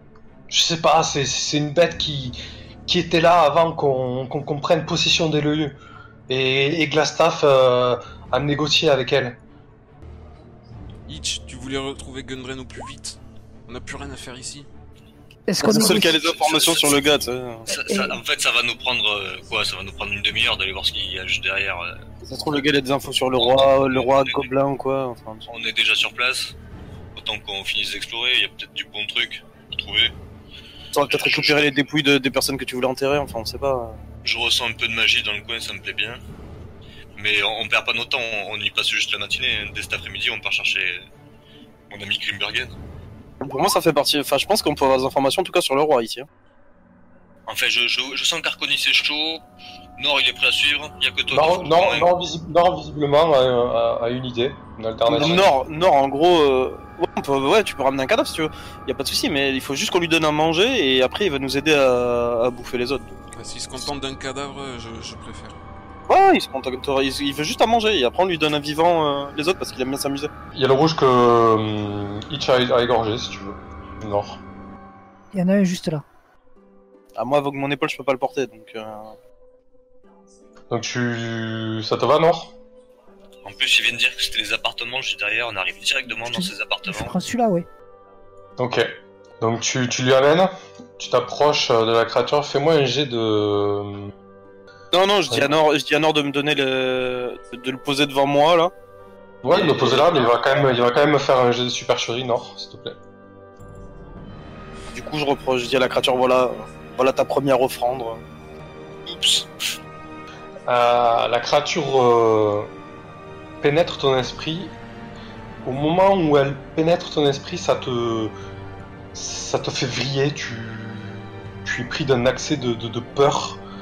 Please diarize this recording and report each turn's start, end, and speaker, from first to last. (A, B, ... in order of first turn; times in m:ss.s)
0:00.5-0:05.8 A
0:06.3-0:09.4 A
0:11.1-0:14.7 B
0:15.5-0:16.2 C
0:15.6-0:17.7 D
0:16.0-0:17.1 E
0:17.7-0:18.2 C
0:17.7-0:22.0 E
0:22.2-0:25.4 D
0:23.4-0:24.5 E
0:25.5-0:26.5 E
0:27.1-0:30.1 E
0:30.9-0:34.0 D
0:31.0-0:31.7 E
0:34.2-0:36.2 E
0:37.2-0:41.0 E
0:41.9-0:42.7 E
0:43.4-0:46.3 D
0:47.5-0:49.4 E
0:50.0-0:52.1 E
0:51.3-0:55.5 A
0:55.1-1:03.2 D
1:03.3-1:05.6 B
1:06.1-1:10.3 D
1:10.5-1:14.4 A
1:15.3-1:16.0 C
1:17.2-1:19.1 D
1:20.7-1:22.5 A
1:23.4-1:27.1 E
1:26.3-1:27.7 C
1:28.6-1:28.9 A
1:29.4-1:34.1 A
1:34.9-1:38.7 D
1:35.3-1:35.6 A
1:39.4-1:43.0 A
1:39.5-1:40.6 D
1:44.9-1:48.2 D
1:49.0-1:49.5 E
1:50.7-1:52.7 A
1:53.6-1:54.8 A
1:55.6-1:58.3 A
1:59.1-2:03.6 A